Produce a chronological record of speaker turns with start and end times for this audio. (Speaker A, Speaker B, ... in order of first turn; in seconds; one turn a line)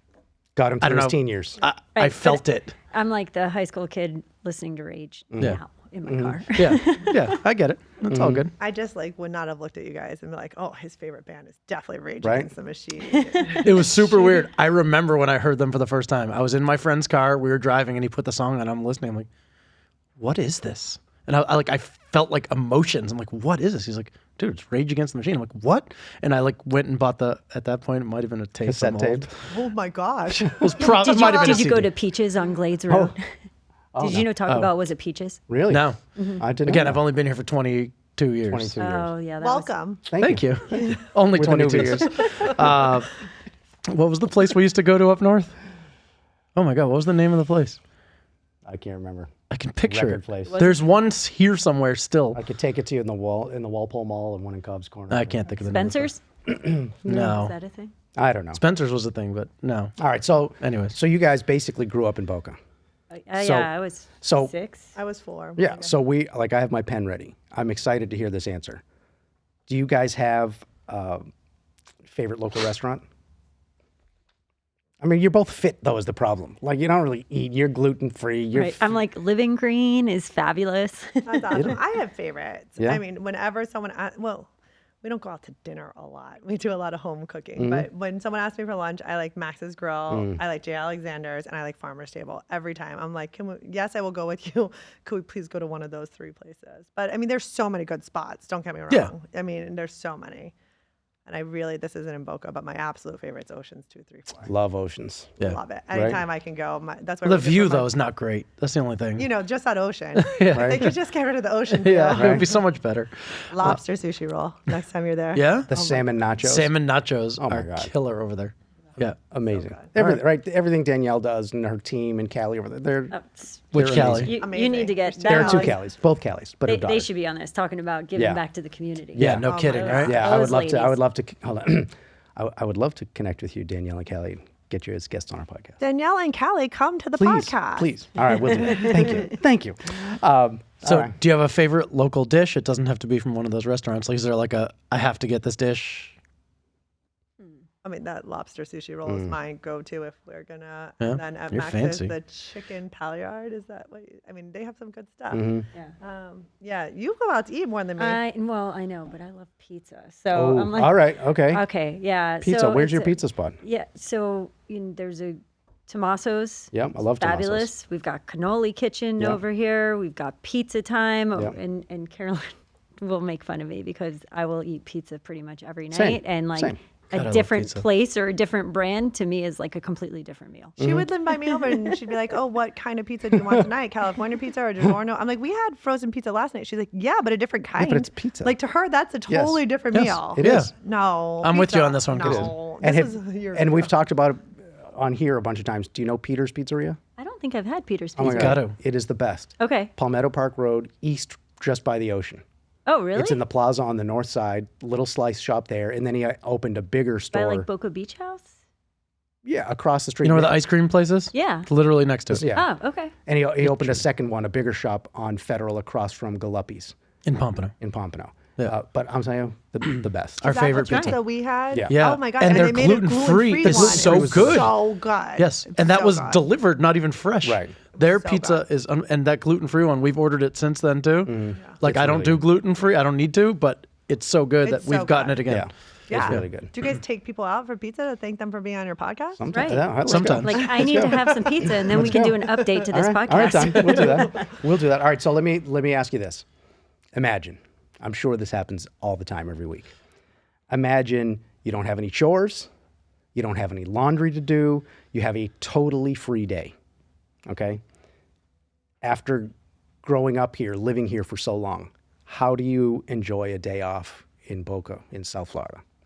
Speaker A: 0.6-1.6
Speaker B: 0.8-2.8
Speaker C: 1.9-7.3
Speaker A: 5.3-6.4
Speaker B: 6.5-8.5
Speaker A: 8.1-8.4
Speaker D: 8.6-14.3
Speaker A: 12.2-12.5
Speaker C: 13.4-13.8
Speaker B: 13.6-19.3
Speaker B: 20.2-29.3
Speaker A: 28.6-29.3
Speaker D: 29.5-31.6
Speaker A: 30.6-30.9
Speaker B: 30.6-31.9
Speaker C: 30.9-33.3
Speaker A: 32.9-33.1
Speaker A: 33.9-34.3
Speaker C: 34.0-35.4
Speaker A: 35.5-37.0
Speaker B: 35.7-36.0
Speaker C: 36.1-36.4
Speaker B: 36.6-38.8
Speaker A: 38.5-39.1
Speaker C: 38.8-39.7
Speaker D: 39.4-40.0
Speaker A: 40.0-42.8
Speaker B: 40.2-43.1
Speaker B: 43.9-45.5
Speaker B: 46.5-47.8
Speaker A: 48.6-49.3
Speaker B: 49.5-52.4
Speaker A: 49.9-50.6
Speaker C: 50.5-50.8
Speaker A: 52.3-55.4
Speaker B: 55.1-56.1
Speaker C: 55.5-56.5
Speaker A: 56.5-57.3
Speaker C: 57.0-57.9
Speaker B: 57.0-57.5
Speaker A: 58.1-58.6
Speaker B: 58.5-59.9
Speaker A: 60.0-62.6
Speaker B: 60.6-60.9
Speaker C: 63.1-64.9
Speaker A: 63.4-64.5
Speaker D: 64.9-65.9
Speaker A: 65.6-68.8
Speaker A: 69.7-71.3
Speaker A: 72.0-73.0
Speaker A: 75.0-78.9
Speaker C: 78.5-81.6
Speaker D: 81.2-84.5
Speaker D: 85.0-100.5
Speaker A: 87.6-87.9
Speaker A: 90.1-90.4
Speaker D: 101.2-104.5
Speaker A: 104.4-105.4
Speaker D: 105.4-107.9
Speaker A: 105.9-106.2
Speaker B: 107.2-109.3
Speaker D: 109.2-112.5
Speaker B: 110.2-110.9
Speaker A: 110.5-110.8
Speaker B: 111.7-113.8
Speaker A: 112.1-112.5
Speaker D: 113.5-116.1
Speaker B: 115.3-115.7
Speaker A: 115.7-116.8
Speaker B: 116.4-119.2
Speaker A: 117.4-117.9
Speaker A: 119.1-123.2
Speaker D: 119.5-119.9
Speaker C: 123.1-125.8
Speaker B: 123.7-124.4
Speaker A: 123.7-124.4
Speaker D: 124.4-125.8
Speaker A: 125.3-127.1
Speaker C: 126.6-131.0
Speaker A: 128.1-128.4
Speaker A: 129.1-135.8
Speaker B: 129.2-130.2
Speaker D: 129.5-130.5
Speaker D: 135.8-137.9
Speaker A: 137.2-141.1
Speaker C: 138.5-139.2
Speaker D: 138.6-139.3
Speaker B: 140.8-146.2
Speaker D: 147.8-155.4
Speaker A: 149.1-149.3
Speaker B: 151.0-152.1
Speaker A: 155.3-155.7
Speaker D: 156.0-158.2
Speaker C: 158.0-180.8
Speaker A: 160.3-161.6
Speaker A: 162.4-163.6
Speaker A: 166.7-167.7
Speaker A: 175.9-176.8
Speaker B: 177.1-177.8
Speaker A: 180.8-181.1
Speaker D: 180.8-193.9
Speaker C: 181.6-181.9
Speaker A: 187.8-188.6
Speaker A: 189.3-190.7
Speaker B: 190.0-190.7
Speaker B: 191.4-192.5
Speaker A: 192.2-197.0
Speaker C: 197.2-198.6
Speaker A: 198.2-202.4
Speaker B: 198.2-198.8
Speaker C: 199.6-199.9
Speaker C: 202.8-203.4
Speaker A: 203.1-207.7
Speaker C: 207.3-208.5
Speaker A: 209.4-210.6
Speaker B: 210.2-212.5
Speaker C: 211.3-211.7
Speaker A: 212.3-212.7
Speaker C: 212.5-213.1
Speaker A: 213.2-216.9
Speaker B: 213.6-214.0
Speaker B: 217.2-217.7
Speaker A: 217.8-221.1
Speaker B: 220.4-221.2
Speaker D: 220.4-226.4
Speaker A: 221.7-222.9
Speaker B: 221.8-224.8
Speaker A: 223.6-224.7
Speaker B: 225.3-236.4
Speaker A: 227.4-227.8
Speaker D: 227.9-228.7
Speaker A: 231.2-232.4
Speaker D: 234.6-235.4
Speaker A: 235.5-236.7
Speaker D: 236.1-239.5
Speaker A: 239.4-246.4
Speaker C: 239.5-244.4
Speaker B: 240.0-240.6
Speaker D: 240.9-241.8
Speaker D: 243.6-244.3
Speaker A: 247.1-249.9
Speaker A: 250.7-252.7
Speaker A: 253.3-256.7
Speaker A: 257.5-257.8
Speaker A: 259.0-259.5
Speaker A: 260.0-265.8